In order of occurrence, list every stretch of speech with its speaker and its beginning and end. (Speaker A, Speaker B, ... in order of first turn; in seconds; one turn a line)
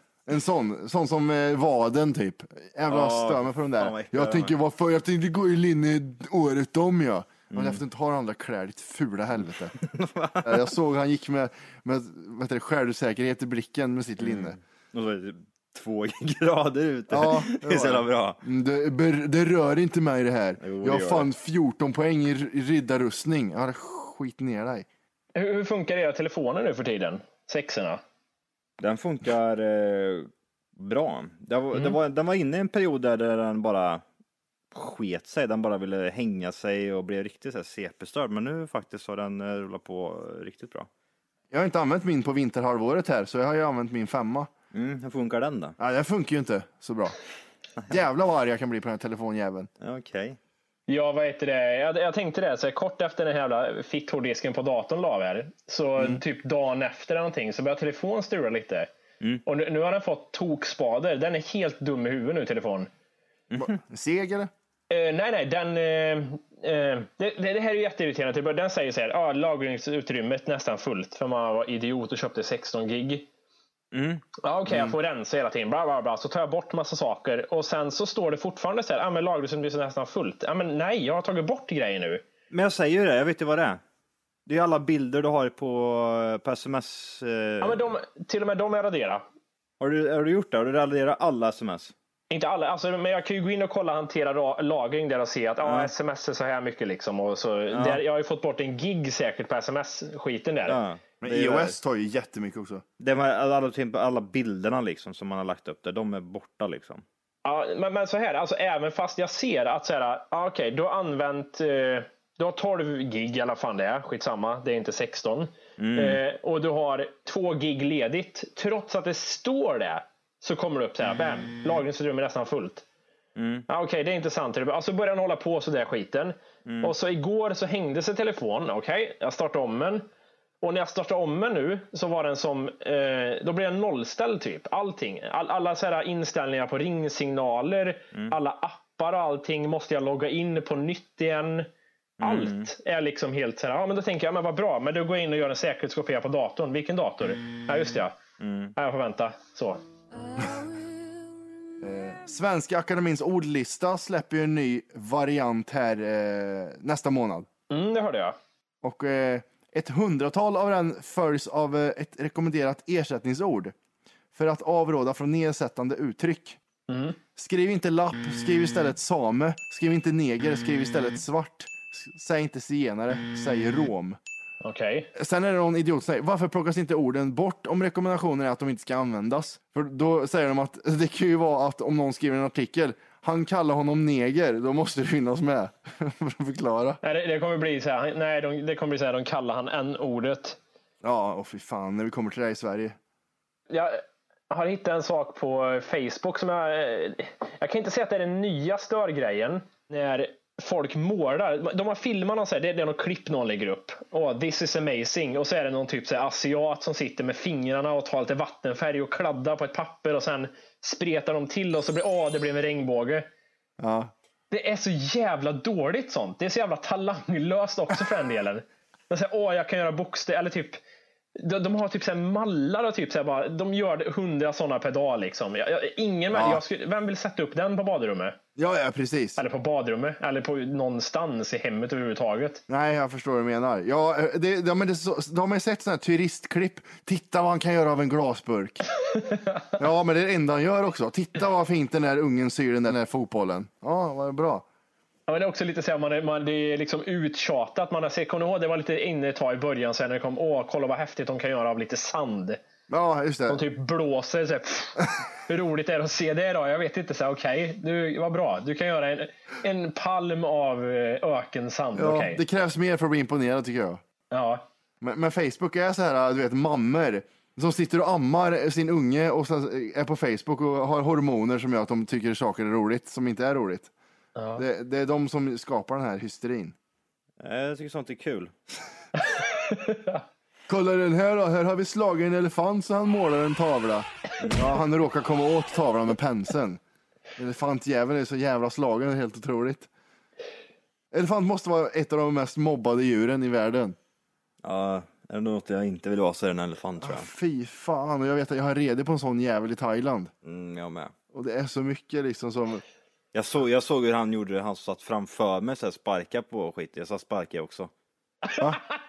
Speaker A: 0.2-9.7
Speaker B: 2.9-4.5
Speaker B: 7.5-7.8
Speaker B: 9.8-10.8
Speaker A: 10.4-14.6
Speaker B: 14.2-18.4
Speaker A: 17.1-24.9
Speaker B: 20.6-21.3
Speaker C: 25.3-28.0
Speaker B: 28.8-34.0
Speaker B: 34.7-40.9
Speaker A: 41.5-44.5
Speaker B: 44.7-45.8
Speaker A: 45.8-47.1
Speaker A: 47.9-49.7
Speaker B: 49.8-50.4
Speaker C: 50.9-58.9
Speaker C: 59.4-62.9
Speaker A: 63.5-64.5
Speaker C: 64.9-73.3
Speaker B: 73.9-74.2
Speaker C: 74.4-82.2
Speaker A: 74.7-74.9
Speaker B: 82.5-83.8
Speaker B: 84.5-87.9
Speaker C: 87.6-89.2
Speaker B: 89.8-91.9
Speaker C: 92.3-100.8
Speaker B: 95.6-95.9
Speaker B: 97.7-98.0
Speaker B: 100.7-101.8
Speaker A: 101.2-102.8
Speaker B: 103.0-107.0
Speaker C: 107.4-122.8
Speaker B: 115.8-116.2
Speaker B: 123.3-123.7
Speaker C: 123.7-130.0
Speaker B: 126.7-126.9
Speaker C: 130.6-141.7
Speaker B: 142.2-142.7
Speaker C: 142.2-148.2
Speaker B: 148.4-148.7
Speaker C: 148.8-149.8
Speaker A: 151.8-157.5
Speaker C: 157.7-158.3
Speaker A: 158.8-163.7
Speaker A: 164.3-166.6
Speaker C: 166.9-167.2
Speaker A: 167.3-174.2
Speaker C: 174.6-175.1
Speaker A: 175.1-187.0
Speaker C: 187.0-190.6
Speaker A: 191.0-193.0
Speaker C: 193.7-213.3
Speaker A: 213.8-214.1
Speaker C: 214.5-220.8
Speaker C: 221.3-228.4
Speaker A: 226.3-226.6
Speaker A: 228.6-229.4
Speaker C: 229.4-232.6
Speaker A: 232.7-238.8
Speaker C: 239.2-239.7
Speaker A: 239.8-244.6
Speaker C: 245.3-252.6
Speaker A: 252.9-253.6
Speaker C: 253.5-262.4
Speaker A: 261.9-264.0
Speaker C: 264.3-264.6
Speaker A: 265.0-273.9
Speaker C: 274.4-274.6
Speaker A: 274.6-276.7
Speaker B: 277.4-278.5
Speaker C: 279.3-280.2
Speaker A: 280.7-286.8
Speaker A: 287.4-289.9
Speaker A: 291.1-294.0
Speaker B: 294.6-297.3
Speaker A: 297.0-300.3
Speaker B: 300.4-301.1
Speaker A: 301.3-302.8
Speaker B: 303.3-307.9